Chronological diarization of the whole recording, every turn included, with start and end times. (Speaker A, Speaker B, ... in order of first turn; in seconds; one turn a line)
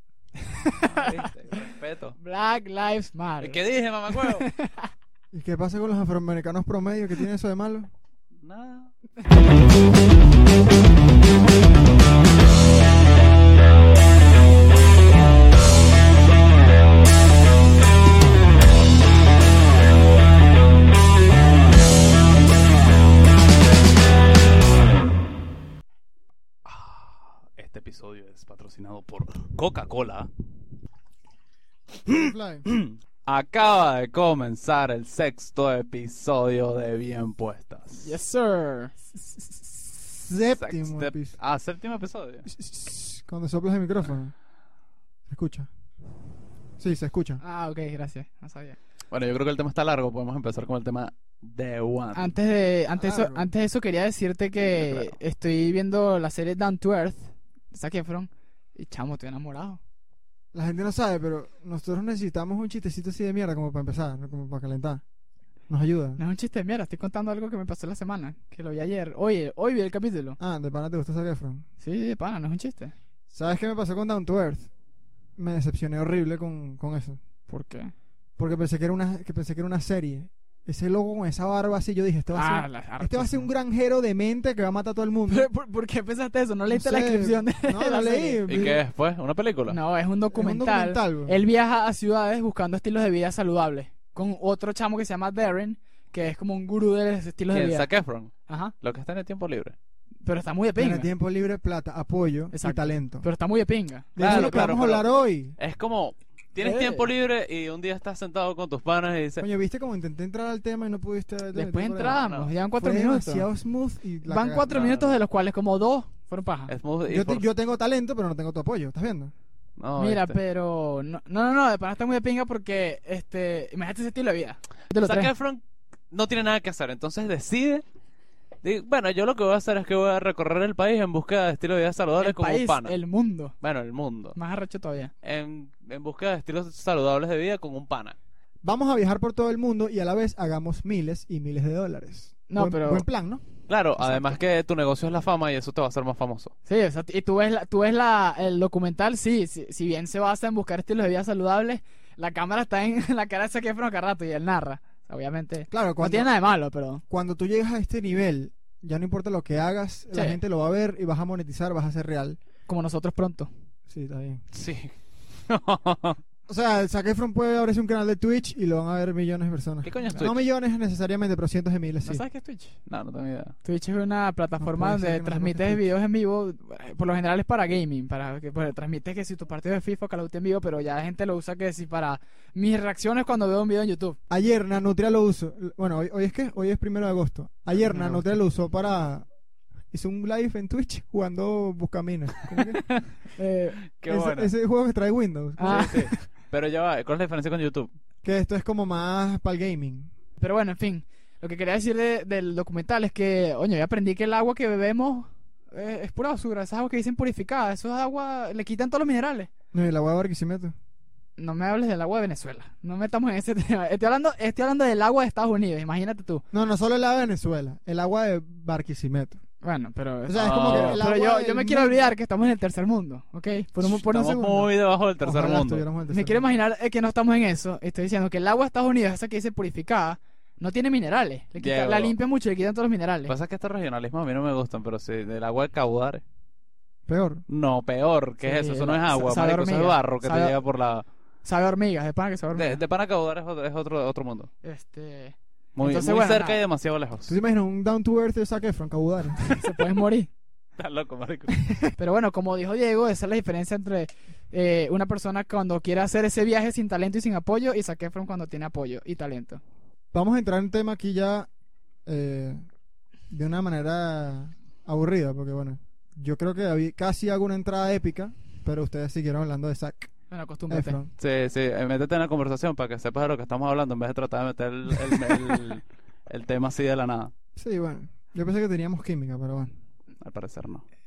Speaker A: 0.4-1.6
Speaker B: 0.8-2.1
Speaker A: 2.2-4.9
Speaker B: 3.4-4.5
Speaker C: 5.3-7.9
Speaker B: 8.4-8.9
Speaker B: 26.6-30.3
Speaker B: 32.0-38.1
Speaker C: 32.1-32.7
Speaker A: 38.0-39.0
Speaker C: 39.5-41.4
Speaker B: 40.6-42.5
Speaker C: 42.5-44.3
Speaker C: 45.3-45.7
Speaker C: 46.8-47.4
Speaker A: 47.4-48.8
Speaker B: 49.1-52.3
Speaker A: 52.1-59.8
Speaker C: 53.0-53.5
Speaker B: 54.8-55.1
Speaker C: 60.5-65.0
Speaker C: 65.7-66.2
Speaker A: 66.2-70.4
Speaker C: 70.4-71.7
Speaker A: 71.8-72.9
Speaker C: 73.3-74.7
Speaker C: 75.4-77.2
Speaker A: 77.5-77.9
Speaker C: 78.4-85.5
Speaker A: 82.3-83.5
Speaker A: 85.3-88.4
Speaker C: 86.7-88.8
Speaker B: 88.5-89.8
Speaker A: 89.7-97.9
Speaker C: 90.3-91.4
Speaker B: 97.5-99.7
Speaker A: 98.5-98.7
Speaker A: 100.2-101.1
Speaker C: 100.8-103.2
Speaker A: 102.5-104.7
Speaker C: 104.2-105.5
Speaker B: 104.2-105.1
Speaker B: 105.6-109.4
Speaker A: 106.6-107.1
Speaker C: 109.4-114.7
Speaker A: 111.5-113.5
Speaker B: 112.1-112.5
Speaker A: 114.2-116.7
Speaker B: 114.7-115.2
Speaker B: 116.7-117.4
Speaker C: 117.1-119.3
Speaker B: 119.8-120.4
Speaker A: 120.0-125.3
Speaker B: 125.0-127.8
Speaker B: 128.6-132.9
Speaker A: 132.2-133.5
Speaker B: 133.6-134.4
Speaker A: 134.3-135.1
Speaker B: 135.2-138.2
Speaker C: 138.6-143.4
Speaker A: 142.5-143.1
Speaker B: 143.7-146.5
Speaker A: 144.0-144.4
Speaker A: 146.7-157.0
Speaker C: 155.7-156.3
Speaker C: 157.1-162.4
Speaker A: 160.1-160.4
Speaker A: 162.7-163.5
Speaker C: 163.9-164.4
Speaker B: 164.5-164.9
Speaker B: 165.4-166.2
Speaker C: 166.5-172.2
Speaker B: 169.8-170.4
Speaker A: 172.0-172.8
Speaker B: 172.8-173.5
Speaker A: 173.6-184.2
Speaker C: 174.6-175.8
Speaker C: 184.3-189.3
Speaker A: 187.8-188.3
Speaker C: 189.9-192.8
Speaker B: 192.7-193.0
Speaker A: 193.3-193.8
Speaker B: 193.9-194.5
Speaker C: 194.1-196.0
Speaker A: 195.6-196.2
Speaker B: 195.6-197.9
Speaker C: 198.2-200.1
Speaker A: 200.4-209.5
Speaker C: 209.7-210.7
Speaker A: 211.4-216.4
Speaker C: 216.5-219.4
Speaker A: 219.6-224.7
Speaker C: 220.3-222.1
Speaker B: 220.3-221.0
Speaker B: 223.8-225.8
Speaker C: 225.2-226.4
Speaker A: 226.1-233.3
Speaker B: 231.6-232.1
Speaker B: 233.3-236.2
Speaker C: 237.1-237.4
Speaker B: 237.5-241.1
Speaker A: 238.4-240.5
Speaker A: 241.4-242.8
Speaker B: 242.5-244.5
Speaker A: 244.6-246.6
Speaker B: 245.8-247.3
Speaker C: 247.3-249.5
Speaker A: 249.6-250.3
Speaker B: 250.8-251.7
Speaker A: 251.9-259.6
Speaker C: 260.1-261.5
Speaker C: 262.1-262.6
Speaker C: 263.3-270.1
Speaker A: 270.3-271.0
Speaker C: 270.7-271.1
Speaker B: 271.2-277.3
Speaker C: 277.6-279.7
Speaker B: 280.2-280.8